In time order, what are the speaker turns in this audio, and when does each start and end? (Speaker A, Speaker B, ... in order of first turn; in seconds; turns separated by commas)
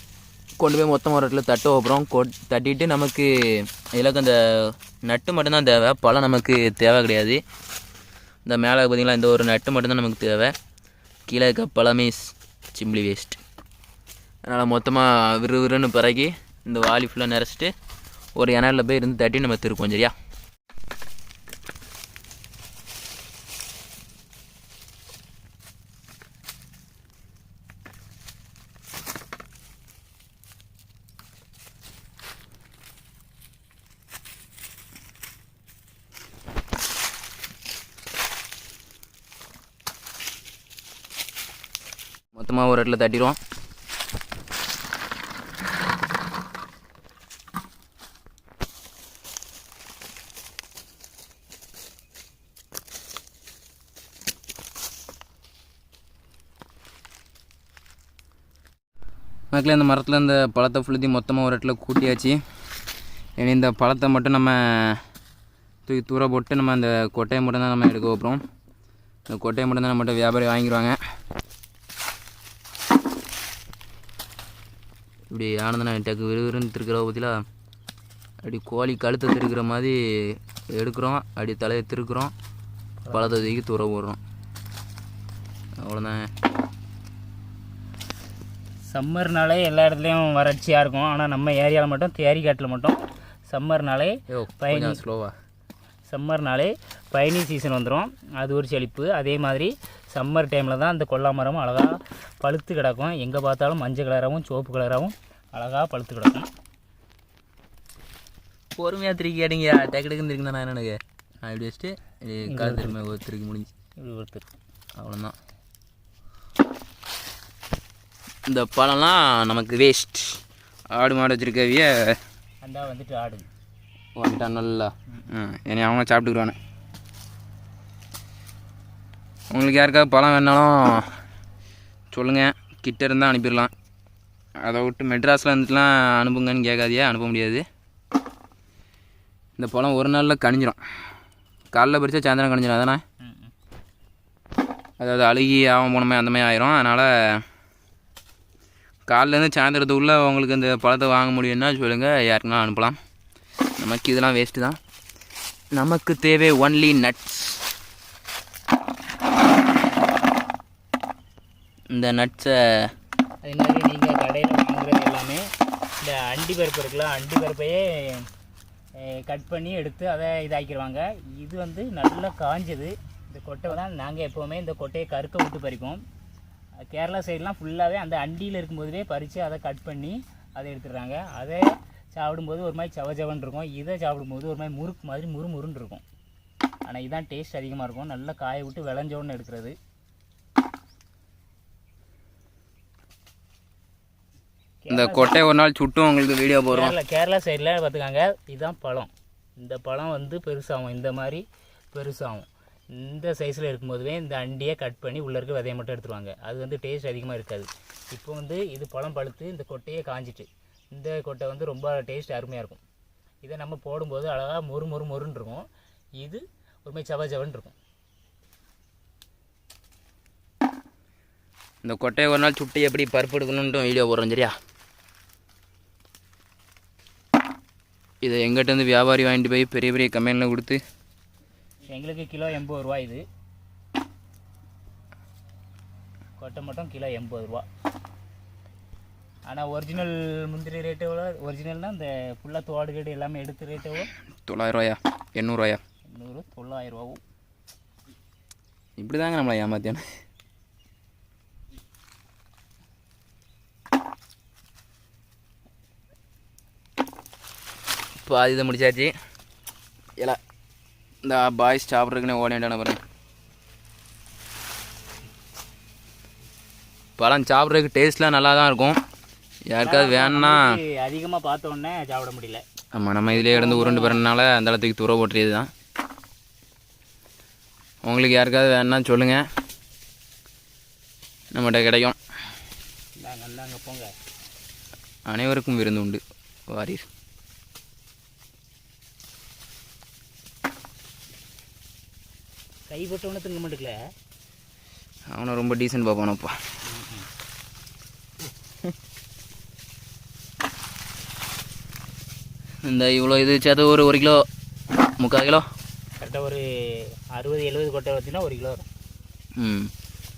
Speaker A: 0.6-7.4, Speaker A: 8.4-10.5, Speaker A: 11.3-13.4, Speaker A: 14.4-17.7, Speaker A: 18.4-20.1, Speaker A: 42.4-43.4, Speaker A: 59.5-62.4, Speaker A: 63.4-65.0, Speaker A: 65.9-68.4, Speaker A: 69.3-71.0, Speaker A: 75.3-77.4, Speaker A: 78.4-82.3, Speaker B: 83.0-83.6, Speaker A: 83.1-84.2, Speaker A: 85.8-86.3, Speaker B: 88.9-95.0, Speaker A: 94.3-95.3, Speaker B: 96.1-106.5, Speaker A: 108.8-113.7, Speaker B: 112.5-113.0, Speaker B: 114.0-114.5, Speaker A: 115.0-115.3, Speaker A: 118.5-120.4, Speaker A: 120.9-121.9, Speaker B: 122.6-123.5, Speaker A: 124.2-126.6, Speaker A: 129.5-131.1, Speaker A: 132.1-133.7, Speaker A: 134.6-137.6, Speaker A: 139.6-140.8, Speaker A: 141.7-143.0, Speaker B: 143.2-143.5, Speaker A: 145.0-147.1, Speaker A: 149.1-153.0, Speaker A: 153.8-154.8, Speaker A: 155.7-157.6, Speaker A: 161.9-162.9, Speaker B: 163.4-165.4, Speaker B: 166.0-168.3, Speaker B: 169.0-176.0, Speaker B: 176.9-186.0, Speaker B: 186.9-189.8, Speaker B: 194.8-195.3, Speaker A: 194.9-196.9, Speaker B: 196.7-212.8, Speaker B: 213.4-215.6, Speaker B: 216.2-217.8, Speaker A: 221.8-224.5, Speaker A: 228.2-230.8, Speaker B: 231.9-233.2, Speaker B: 236.4-237.7, Speaker B: 239.5-244.1, Speaker A: 244.5-245.8, Speaker B: 246.1-247.2, Speaker A: 249.0-250.0, Speaker A: 258.2-259.1, Speaker A: 261.2-263.0, Speaker A: 267.2-269.0, Speaker A: 269.7-270.7, Speaker B: 269.8-272.6, Speaker A: 272.9-275.7, Speaker B: 273.3-274.2, Speaker A: 278.0-279.4, Speaker A: 281.5-282.2, Speaker B: 283.2-284.1, Speaker A: 285.3-287.1, Speaker B: 292.9-294.0, Speaker A: 295.3-296.5, Speaker B: 296.9-297.3, Speaker A: 302.9-304.4, Speaker A: 305.2-305.6, Speaker B: 306.2-308.9, Speaker A: 309.6-309.9